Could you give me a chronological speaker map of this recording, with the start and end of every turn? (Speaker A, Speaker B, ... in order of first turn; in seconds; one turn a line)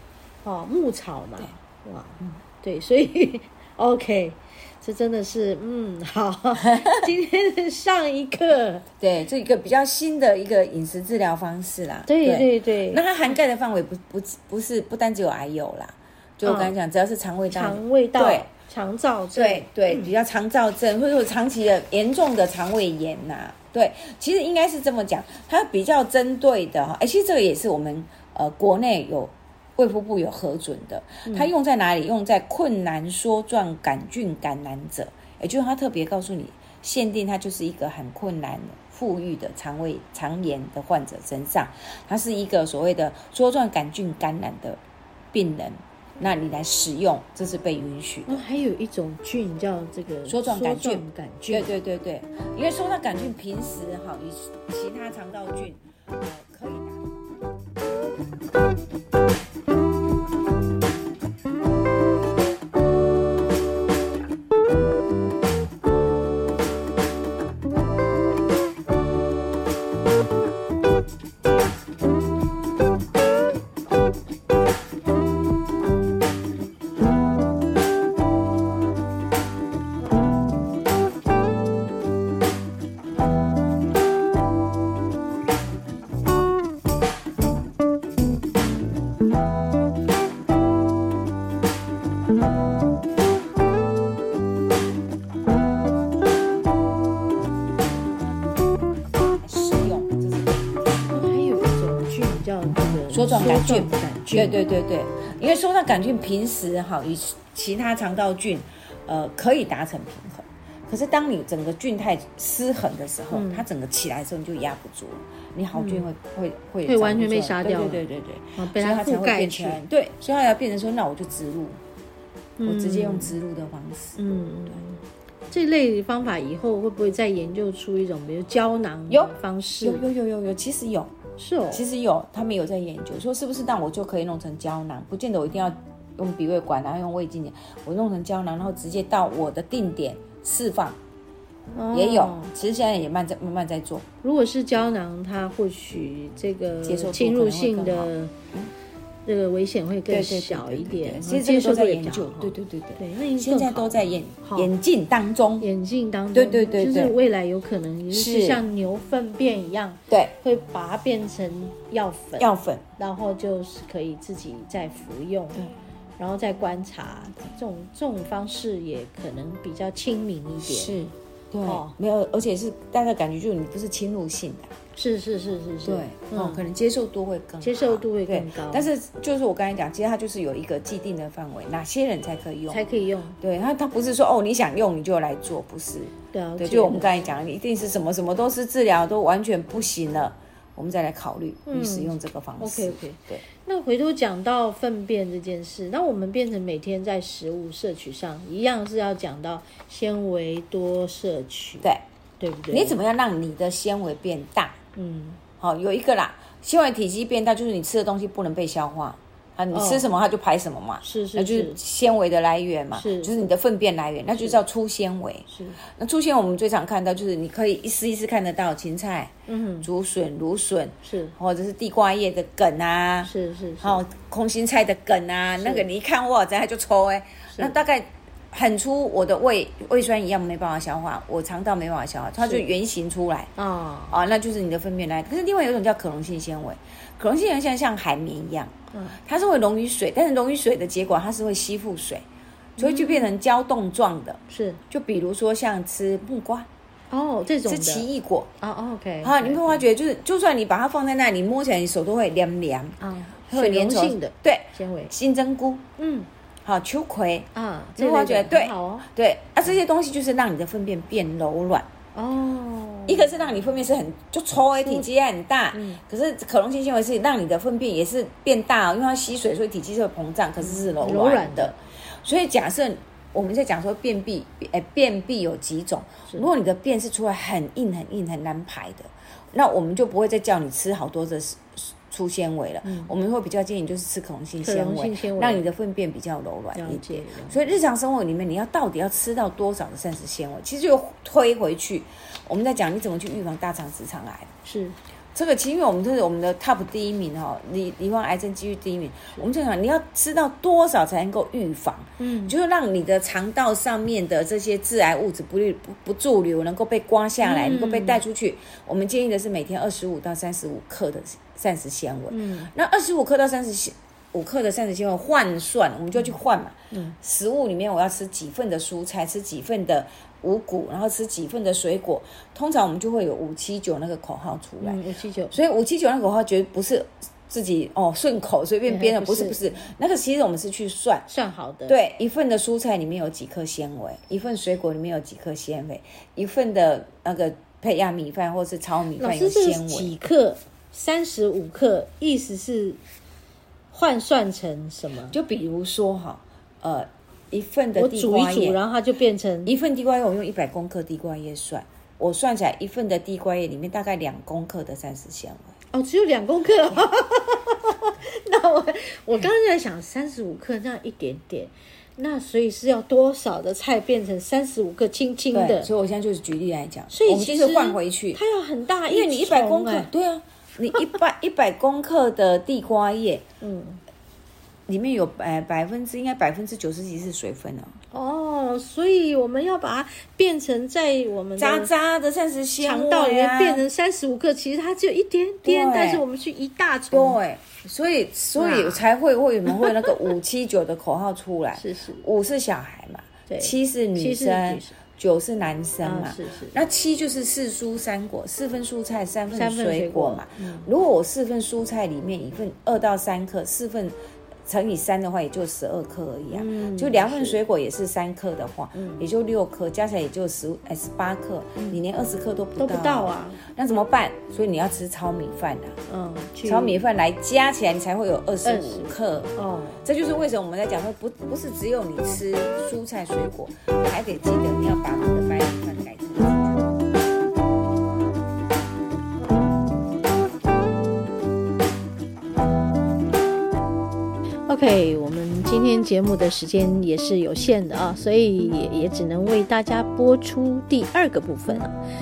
Speaker A: 0.4-8.8
Speaker B: 6.6-7.1
Speaker B: 9.0-18.5
Speaker A: 12.1-13.0
Speaker A: 16.4-16.8
Speaker A: 17.5-20.1
Speaker B: 19.3-44.8
Speaker A: 31.2-31.5
Speaker B: 45.3-48.4
Speaker A: 48.3-51.7
Speaker B: 50.2-57.2
Speaker B: 99.3-101.0
Speaker A: 101.1-104.6
Speaker B: 103.1-121.8
Speaker A: 113.3-113.7
Speaker A: 115.7-116.1
Speaker A: 116.8-118.0
Speaker A: 118.6-119.8
Speaker A: 122.6-123.3
Speaker B: 122.6-124.2
Speaker A: 124.2-130.1
Speaker B: 129.1-131.1
Speaker A: 131.4-131.8
Speaker B: 131.7-141.0
Speaker A: 141.7-142.5
Speaker B: 141.9-144.1
Speaker A: 144.2-148.3
Speaker B: 146.8-148.7
Speaker A: 149.2-154.7
Speaker B: 150.1-155.7
Speaker A: 155.6-165.6
Speaker B: 156.3-157.2
Speaker B: 158.1-158.6
Speaker B: 162.4-162.8
Speaker A: 166.2-171.0
Speaker B: 170.6-174.7
Speaker A: 171.7-171.9
Speaker A: 174.9-176.6
Speaker B: 175.8-182.9
Speaker A: 177.6-178.9
Speaker A: 182.7-183.4
Speaker B: 183.4-193.4
Speaker A: 186.3-187.1
Speaker A: 191.7-203.0
Speaker B: 202.7-204.8
Speaker A: 204.9-205.4
Speaker B: 205.6-233.5
Speaker A: 209.7-210.1
Speaker A: 211.0-211.8
Speaker A: 212.9-213.3
Speaker A: 215.5-215.8
Speaker A: 219.5-219.9
Speaker A: 221.0-221.3
Speaker A: 223.2-224.0
Speaker A: 225.6-225.8
Speaker A: 232.4-232.6
Speaker A: 233.6-234.2
Speaker B: 234.1-242.2
Speaker A: 238.9-239.2
Speaker B: 242.8-244.4
Speaker A: 242.8-243.3
Speaker A: 244.5-244.8
Speaker B: 244.9-246.7
Speaker A: 247.1-248.1
Speaker B: 247.7-248.5
Speaker A: 248.6-249.8
Speaker B: 249.2-253.0
Speaker A: 253.0-255.1
Speaker B: 253.5-255.8
Speaker A: 256.0-256.3
Speaker B: 256.6-261.9
Speaker A: 257.6-259.1
Speaker A: 262.1-263.8
Speaker B: 263.1-294.5
Speaker A: 264.8-265.1
Speaker A: 265.7-266.0
Speaker A: 270.6-271.7
Speaker A: 282.8-283.1
Speaker A: 284.6-285.6
Speaker A: 286.7-287.8
Speaker A: 294.6-294.9
Speaker B: 295.3-325.0
Speaker A: 302.2-302.6
Speaker A: 307.4-308.2
Speaker A: 312.3-312.7
Speaker A: 324.8-325.6
Speaker B: 325.5-331.2
Speaker A: 328.9-329.6
Speaker A: 331.3-332.0
Speaker B: 331.9-340.2
Speaker A: 339.2-343.0
Speaker A: 343.9-345.4
Speaker B: 345.3-348.8
Speaker A: 347.9-349.7
Speaker B: 349.7-355.7
Speaker A: 355.9-365.9
Speaker B: 365.5-368.4
Speaker A: 367.1-370.1
Speaker B: 369.1-373.4
Speaker A: 373.6-374.0
Speaker B: 374.9-377.9
Speaker A: 378.1-381.9
Speaker B: 381.6-383.8
Speaker A: 382.8-387.4
Speaker B: 385.6-386.2
Speaker B: 387.1-404.1
Speaker A: 388.6-389.0
Speaker A: 389.7-390.1
Speaker A: 391.7-392.2
Speaker A: 393.5-394.9
Speaker A: 396.0-396.8
Speaker A: 399.5-400.9
Speaker B: 404.7-415.9
Speaker A: 406.5-407.6
Speaker A: 408.9-409.2
Speaker A: 412.8-413.6
Speaker A: 416.1-417.0
Speaker B: 416.6-419.5
Speaker A: 418.6-420.1
Speaker B: 420.0-427.0
Speaker A: 434.7-441.9